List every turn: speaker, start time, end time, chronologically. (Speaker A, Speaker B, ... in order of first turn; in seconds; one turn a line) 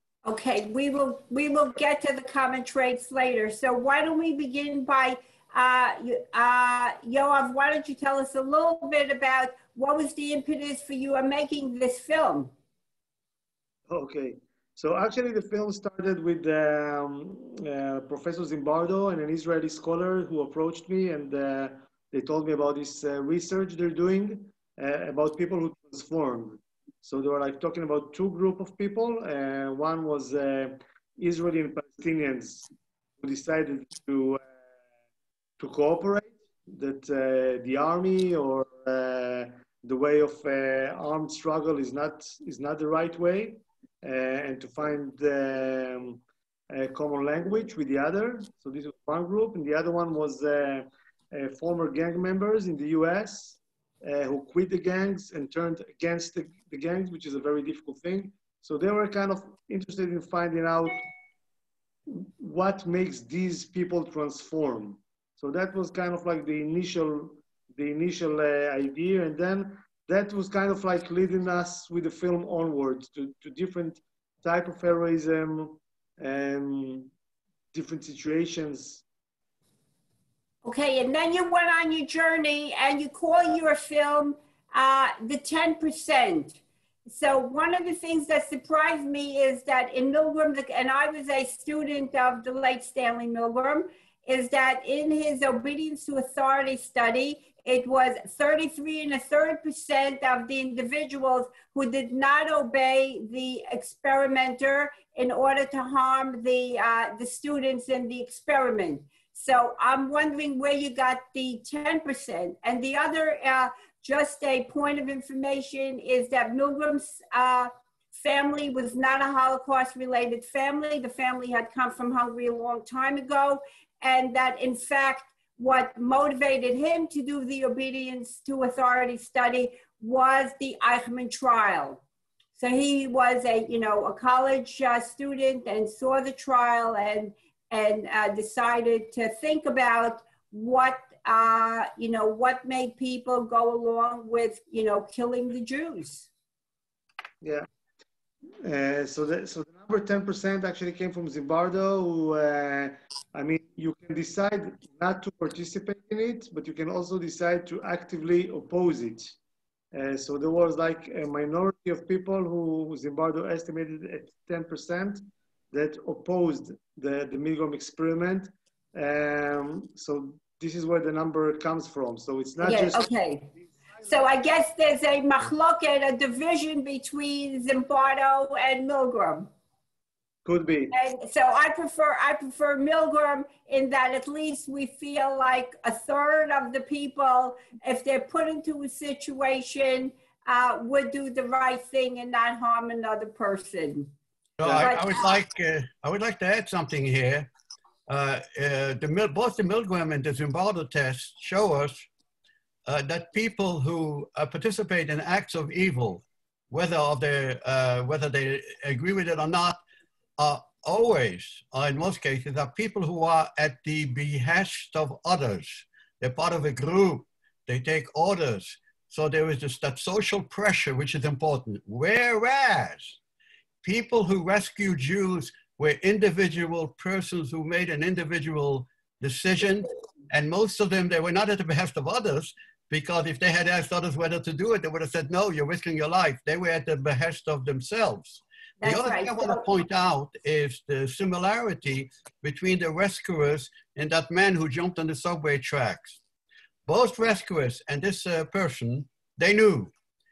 Speaker A: 0.2-12.5
Speaker B: 13.9-32.7
Speaker B: 33.2-34.4
Speaker B: 35.6-61.0
Speaker B: 62.1-77.1
Speaker B: 77.7-79.0
Speaker A: 80.6-132.0
Speaker A: 132.6-146.3
Speaker B: 148.6-159.3
Speaker B: 159.9-173.1
Speaker A: 172.6-173.5
Speaker A: 174.0-179.5
Speaker B: 180.4-180.9
Speaker A: 180.9-194.1
Speaker C: 194.6-197.5
Speaker B: 194.6-194.9
Speaker A: 194.7-195.3
Speaker C: 198.1-202.1
Speaker C: 202.8-209.8
Speaker C: 210.4-223.2
Speaker C: 223.8-246.2
Speaker A: 238.8-239.6
Speaker C: 246.8-249.9